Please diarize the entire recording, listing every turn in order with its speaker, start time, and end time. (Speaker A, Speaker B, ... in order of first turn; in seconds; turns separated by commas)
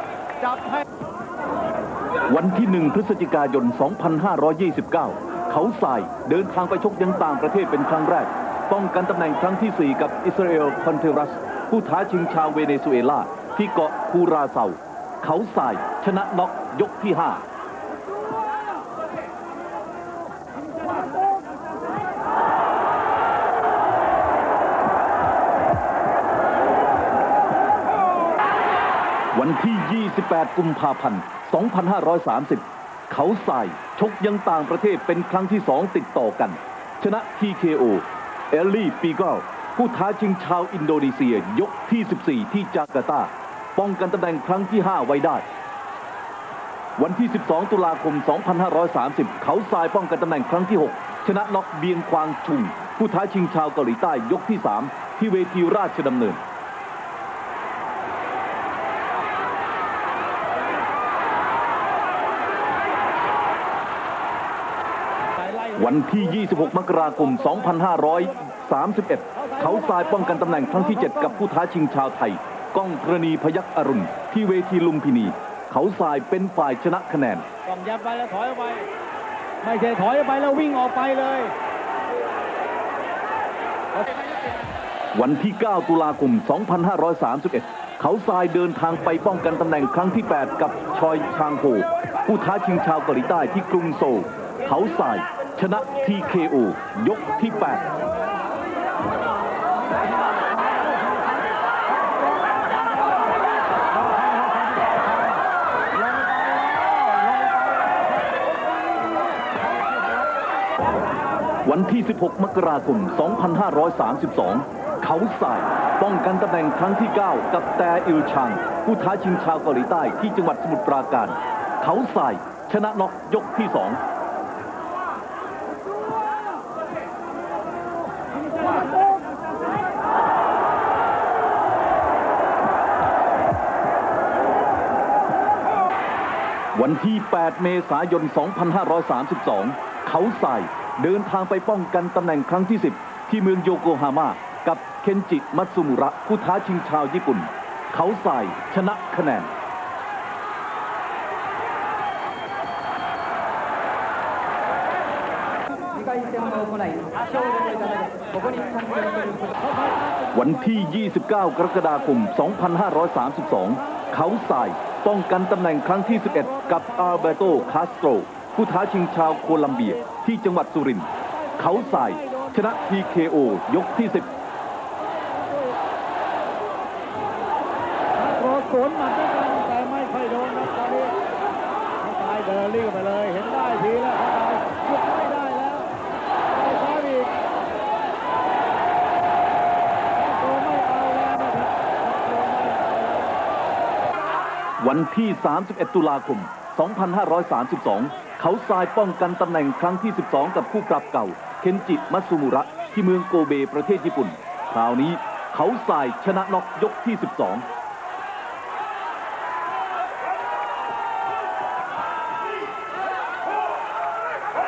Speaker A: 0.4-0.8, Speaker B: 2.3-17.4, Speaker B: 29.3-45.5, Speaker B: 47.0-56.4, Speaker A: 65.4-68.6, Speaker B: 65.8-77.5, Speaker A: 69.3-71.4, Speaker A: 77.7-78.9, Speaker A: 79.6-81.5, Speaker A: 84.0-84.2, Speaker B: 85.1-97.9, Speaker B: 111.7-124.0, Speaker B: 136.8-149.5, Speaker A: 159.7-160.7, Speaker B: 160.3-174.3, Speaker A: 166.1-167.9, Speaker A: 169.5-170.0, Speaker A: 171.4-172.9, Speaker A: 175.4-175.7, Speaker A: 178.2-181.2, Speaker A: 182.0-185.9, Speaker A: 186.5-187.3, Speaker A: 190.2-193.4, Speaker B: 194.8-207.7